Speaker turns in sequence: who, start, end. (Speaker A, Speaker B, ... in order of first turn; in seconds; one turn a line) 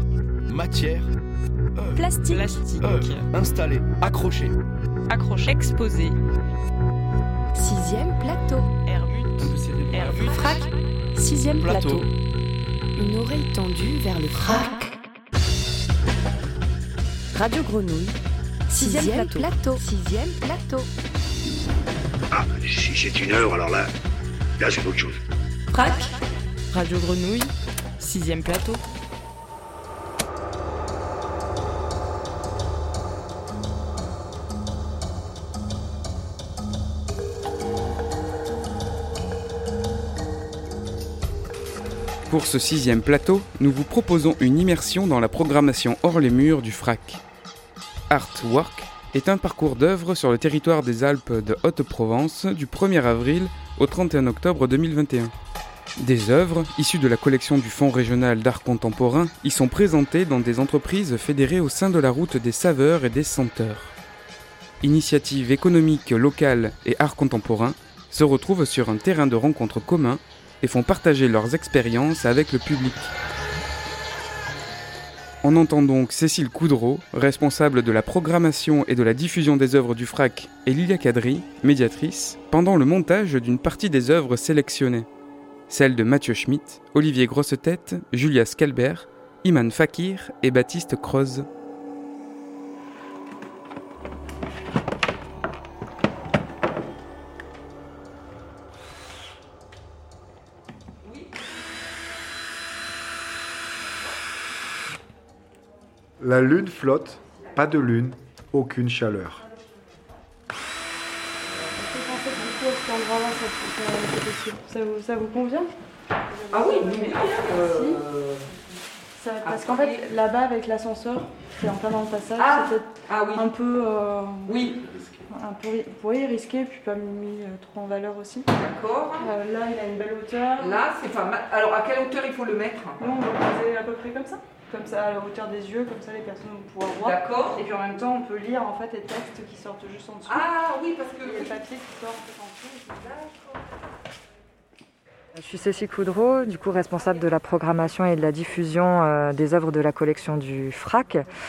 Speaker A: 0.5-1.1
Speaker A: 1.8-2.0
Speaker B: 2.0-2.6
Speaker C: 2.3-3.3
Speaker A: 2.8-4.5
Speaker C: 5.1-6.2
Speaker B: 7.5-8.7
Speaker C: 8.9-10.7
Speaker A: 9.4-10.5
Speaker B: 10.3-10.6
Speaker B: 11.2-12.1
Speaker A: 11.6-12.1
Speaker B: 13.0-14.9
Speaker B: 17.3-18.2
Speaker B: 18.7-20.9
Speaker D: 22.3-23.9
Speaker D: 24.6-25.2
Speaker B: 25.7-26.1
Speaker B: 26.7-28.8
Speaker E: 42.3-47.2
Speaker E: 48.1-55.3
Speaker E: 56.0-63.9
Speaker E: 64.8-73.1
Speaker E: 75.4-85.1
Speaker E: 85.7-91.5
Speaker F: 106.2-109.4
Speaker G: 111.7-115.7
Speaker G: 116.3-118.0
Speaker H: 116.5-118.5
Speaker G: 119.2-124.6
Speaker H: 119.4-120.1
Speaker H: 122.3-123.5
Speaker H: 124.4-125.0
Speaker G: 125.3-128.5
Speaker H: 128.5-129.3
Speaker G: 129.2-130.8
Speaker H: 130.6-133.0
Speaker G: 133.0-140.6
Speaker H: 137.0-137.6
Speaker H: 140.3-141.5
Speaker G: 141.2-143.1
Speaker I: 145.3-151.3